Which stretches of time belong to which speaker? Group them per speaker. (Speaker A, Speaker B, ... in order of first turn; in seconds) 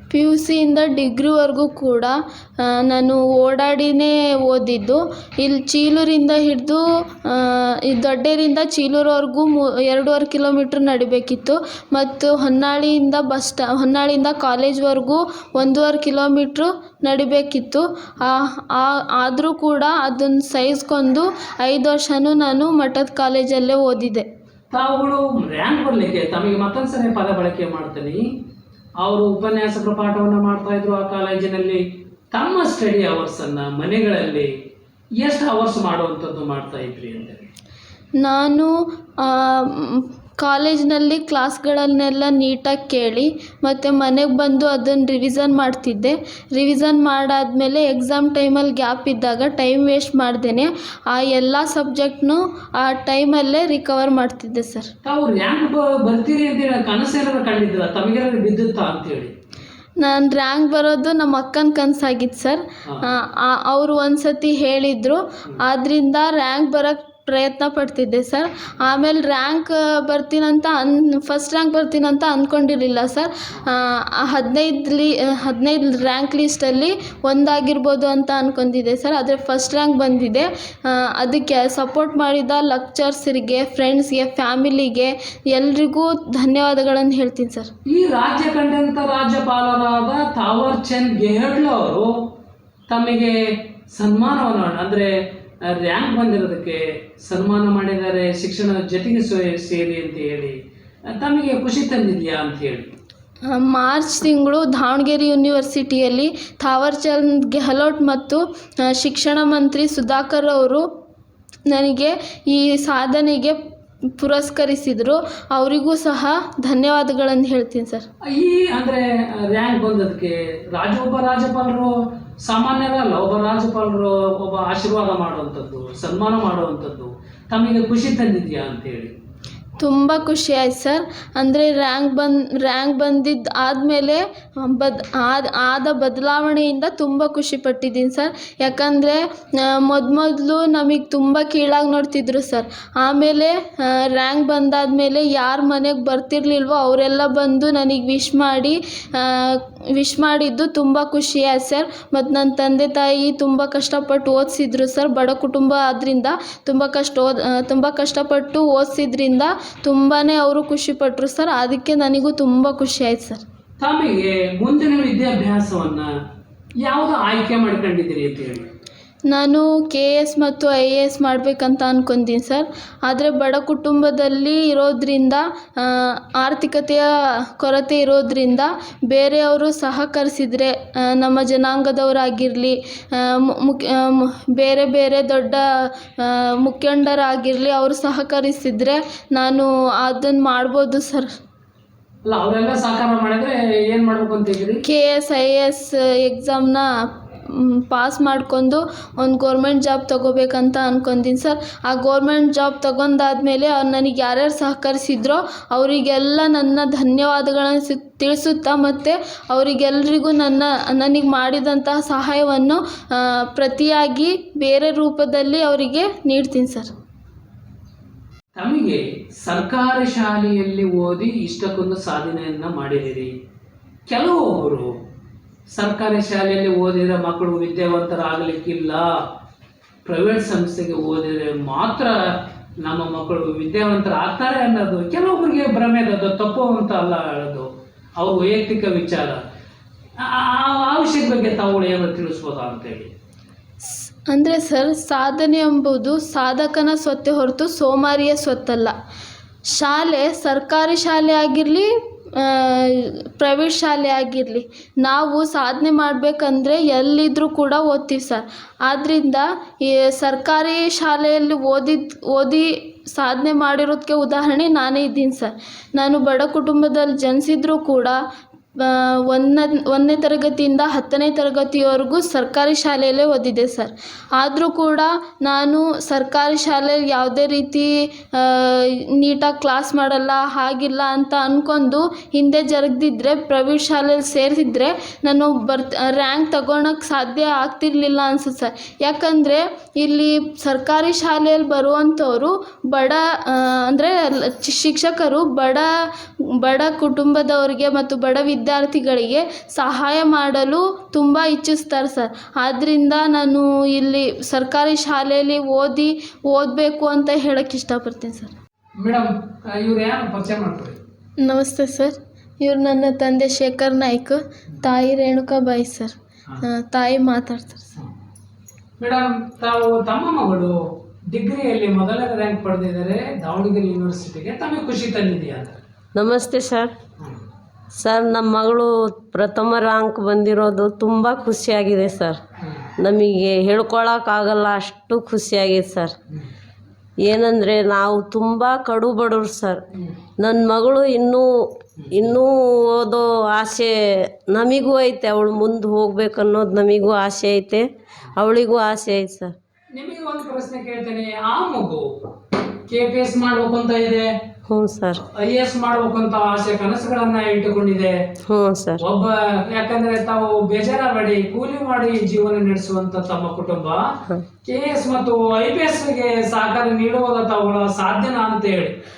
Speaker A: 0.1-24.2, 38.2-54.9, 60.0-87.7, 103.5-110.8, 111.7-113.6, 114.2-118.0, 129.8-163.4, 169.3-191.3, 194.8-196.9, 197.4-216.9, 244.3-248.9, 249.7-268.2, 268.8-295.9, 296.6-308.5, 311.4-317.9
Speaker B: 24.7-28.2, 29.0-31.8, 32.3-34.5, 35.2-37.5, 55.0-59.3, 87.9-92.1, 92.9-93.3, 93.9-95.1, 95.7-100.5, 101.1-102.9, 118.3-129.1, 163.8-166.1, 166.8-168.7, 192.2-194.8, 218.6-223.3, 224.1-224.9, 225.8-229.1, 230.0-232.1, 232.8-237.7, 238.2-239.4, 240.2-243.1, 309.0-311.0, 319.0-320.7, 321.3-325.8, 332.6-332.9, 342.0-342.4, 349.9-352.0, 352.9-354.3, 355.4-358.1, 359.0-364.0, 364.6-368.9
Speaker C: 326.1-326.9, 327.9-332.4, 333.0-336.1, 337.2-339.8, 340.4-341.5, 342.1-349.5, 354.7-355.2, 358.5-359.0